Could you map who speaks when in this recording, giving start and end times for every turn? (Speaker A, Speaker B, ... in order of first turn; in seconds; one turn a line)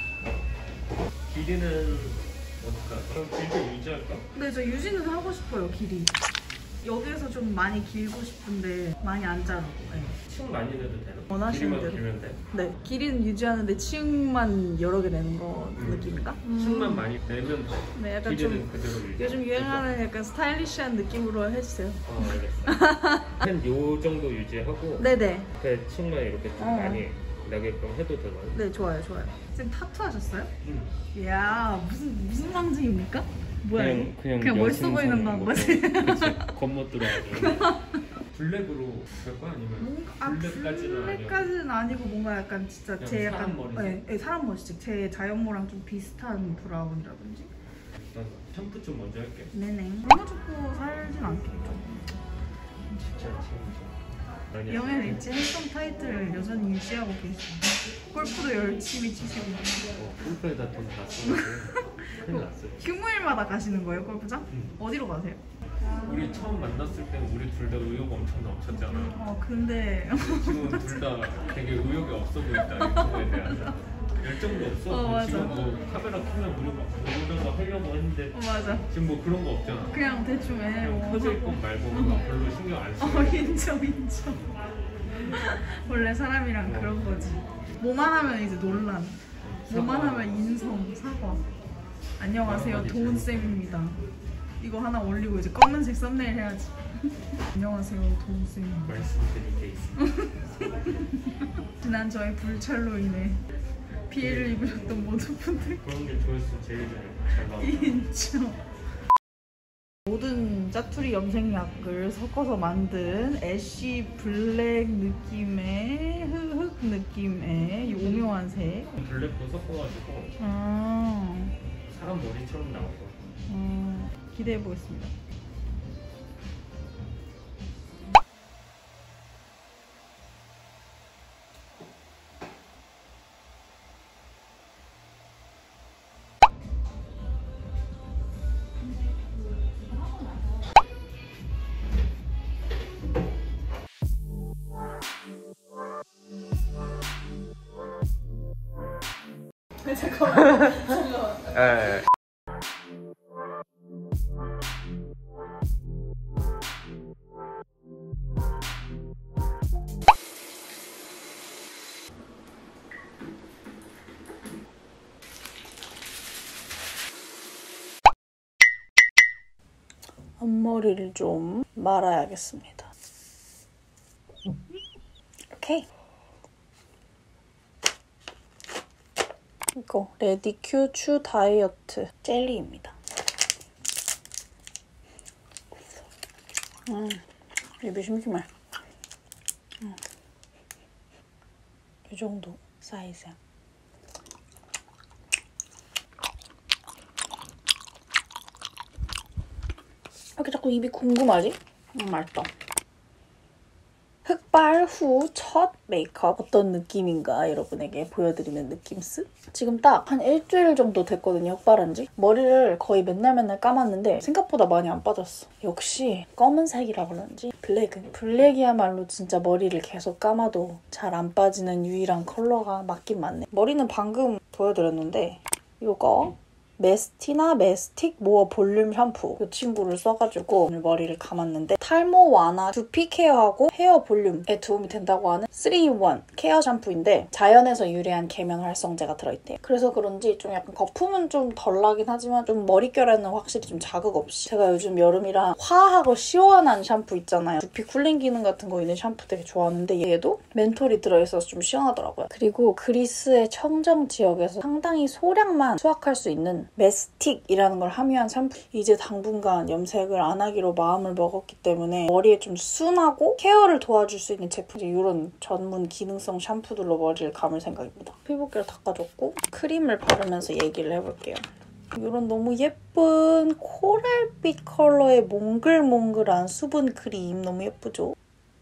Speaker A: 1.3-4.3
Speaker B: 4.3-6.1
Speaker B: 6.8-10.2
Speaker A: 10.2-12.4
Speaker B: 11.3-17.1
Speaker A: 15.8-20.0
Speaker B: 17.9-23.4
Speaker A: 22.0-28.6
Speaker B: 25.0-25.5
Speaker B: 26.6-27.1
Speaker B: 28.5-30.5
Speaker A: 30.6-30.9
Speaker B: 31.1-38.0
Speaker A: 33.7-37.7
Speaker A: 38.3-41.5
Speaker B: 39.8-47.5
Speaker A: 43.0-44.0
Speaker A: 47.9-49.5
Speaker B: 49.5-52.2
Speaker A: 52.9-55.3
Speaker B: 54.7-59.9
Speaker A: 60.0-62.8
Speaker B: 61.2-66.5
Speaker A: 66.0-69.2
Speaker B: 68.7-71.2
Speaker A: 70.1-80.0
Speaker B: 72.5-73.7
Speaker B: 74.7-75.7
Speaker B: 78.3-78.9
Speaker B: 79.9-82.2
Speaker A: 80.7-83.7
Speaker B: 83.0-84.5
Speaker B: 85.2-91.4
Speaker A: 86.6-87.4
Speaker A: 89.4-90.5
Speaker B: 92.2-94.0
Speaker A: 92.4-93.8
Speaker B: 94.6-99.0
Speaker A: 98.8-100.0
Speaker B: 100.0-103.4
Speaker B: 104.1-105.8
Speaker A: 104.2-104.7
Speaker A: 105.8-108.0
Speaker B: 107.4-108.6
Speaker B: 110.1-118.9
Speaker A: 119.0-120.3
Speaker B: 120.4-121.5
Speaker A: 121.8-123.2
Speaker B: 123.5-125.1
Speaker B: 149.9-151.4
Speaker A: 150.2-150.9
Speaker A: 151.5-152.0
Speaker B: 170.4-172.9
Speaker B: 175.5-175.9
Speaker B: 179.7-182.9
Speaker B: 186.9-187.2
Speaker B: 187.8-188.5
Speaker B: 192.1-193.4
Speaker B: 200.4-202.5
Speaker B: 204.2-278.1